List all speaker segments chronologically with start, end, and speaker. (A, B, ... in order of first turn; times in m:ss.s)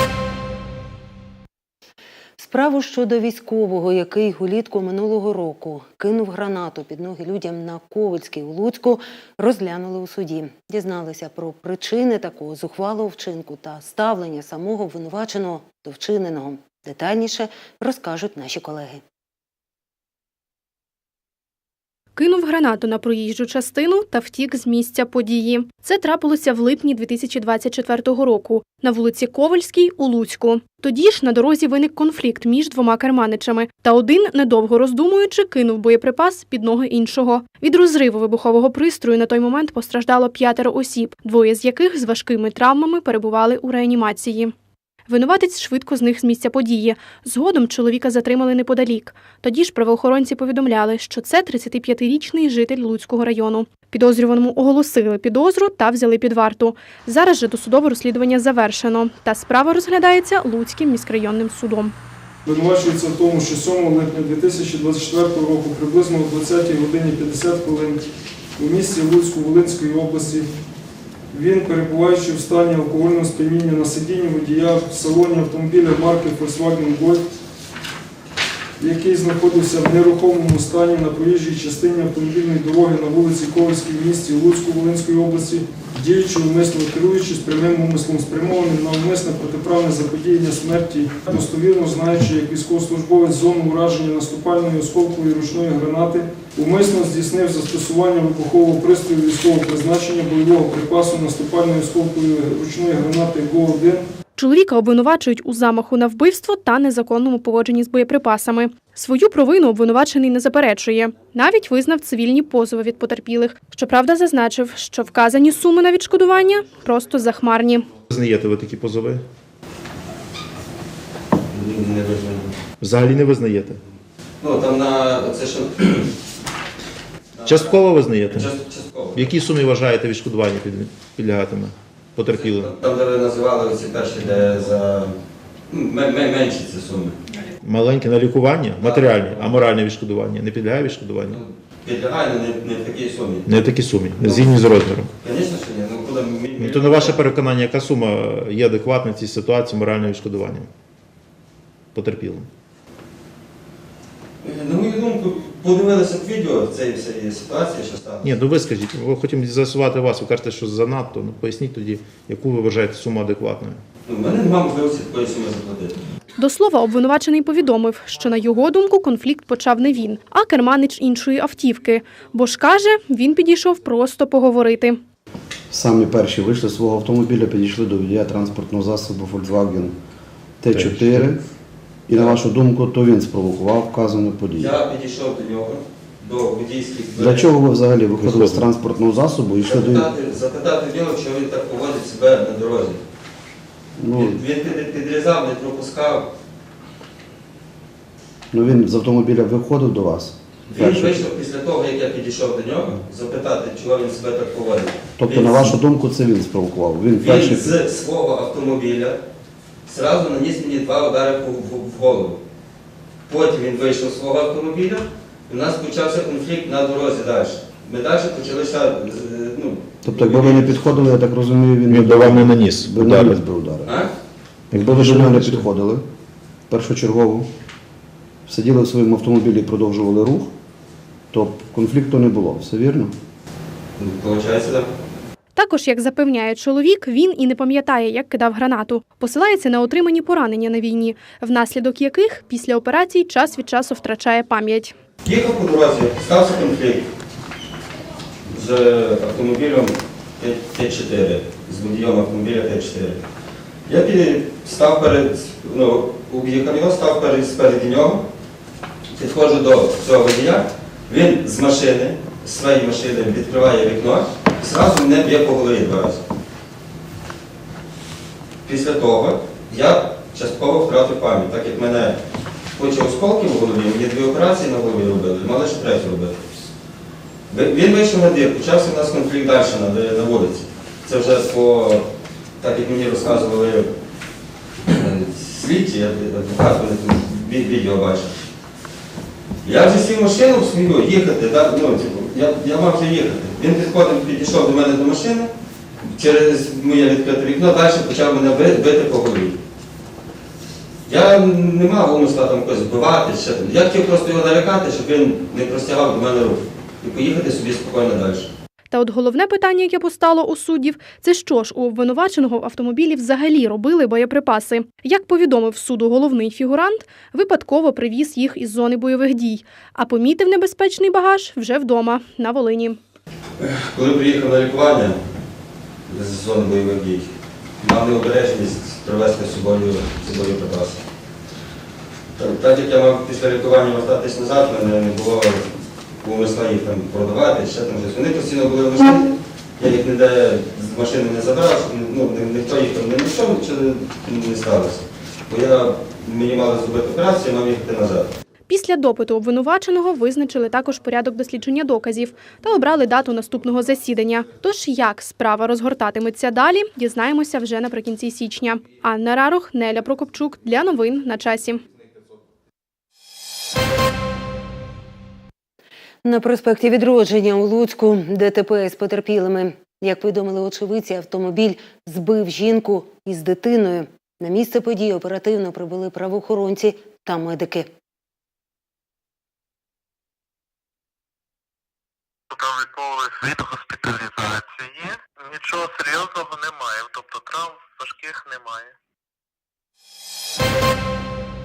0:02.4-0:19.0 A
0:22.2-0:44.5 B
0:45.1-1:01.9 B
1:02.4-1:08.0 C
1:08.6-1:10.5 C
1:11.3-1:17.2 C
1:18.8-1:44.0 C
1:44.4-1:57.9 B
1:58.1-1:59.2 D
2:01.5-2:02.5 E
2:02.8-2:03.8 D
2:04.4-2:06.1 E
2:07.4-2:07.8 E
2:07.4-2:08.5 D
2:08.3-2:09.3 E
2:09.1-2:12.7 D
2:12.3-2:15.1 E
2:15.7-2:17.2 E
2:17.6-2:21.4 D
2:18.8-2:19.3 E
2:21.3-2:23.5 E
2:23.5-2:25.1 D
2:24.2-2:24.6 E
2:25.2-2:27.2 E
2:26.6-2:30.7 D
2:31.9-2:32.5 D
2:34.4-2:38.3 E
2:38.2-2:43.8 D
2:44.1-2:46.0 E
2:46.4-2:55.0 B
2:55.7-3:00.0 F
3:00.6-3:01.4 F
3:00.7-3:01.2 D
3:02.1-3:04.7 F
3:04.6-3:07.6 E
3:07.1-3:10.1 F
3:08.2-3:08.7 D
3:09.6-3:13.0 E
3:14.0-3:14.4 F
3:14.1-3:16.3 E
3:18.5-3:21.2 F
3:20.7-3:25.7 E
3:25.2-3:27.8 F
3:27.2-3:29.2 E
3:29.9-3:32.4 E
3:33.3-3:41.1 E
3:40.0-3:43.9 F
3:41.9-3:43.4 D
3:44.7-3:45.7 D
3:44.7-3:46.0 F
3:46.7-3:47.5 F
3:48.5-3:50.5 F
3:51.3-3:53.1 F
3:54.0-3:54.9 E
3:55.6-4:04.9 B
4:05.2-4:07.1 E
4:08.5-4:13.2 E
4:13.9-4:18.2 E
4:19.1-4:26.2 E
4:28.6-4:32.2 E
4:32.7-4:36.4 E
4:37.5-4:42.0 E
4:42.6-4:43.9 E
4:44.9-4:48.3 E
4:49.6-4:55.5 E
4:56.0-4:59.6 E
5:01.1-5:08.5 E
5:08.9-5:23.0 B
5:23.6-5:25.2 E
5:26.1-5:27.3 E
5:27.8-5:31.0 E
5:32.4-5:35.7 E
5:36.2-5:48.3 E
5:48.7-6:01.8 B
6:06.2-6:17.9 A
6:22.5-6:28.9 G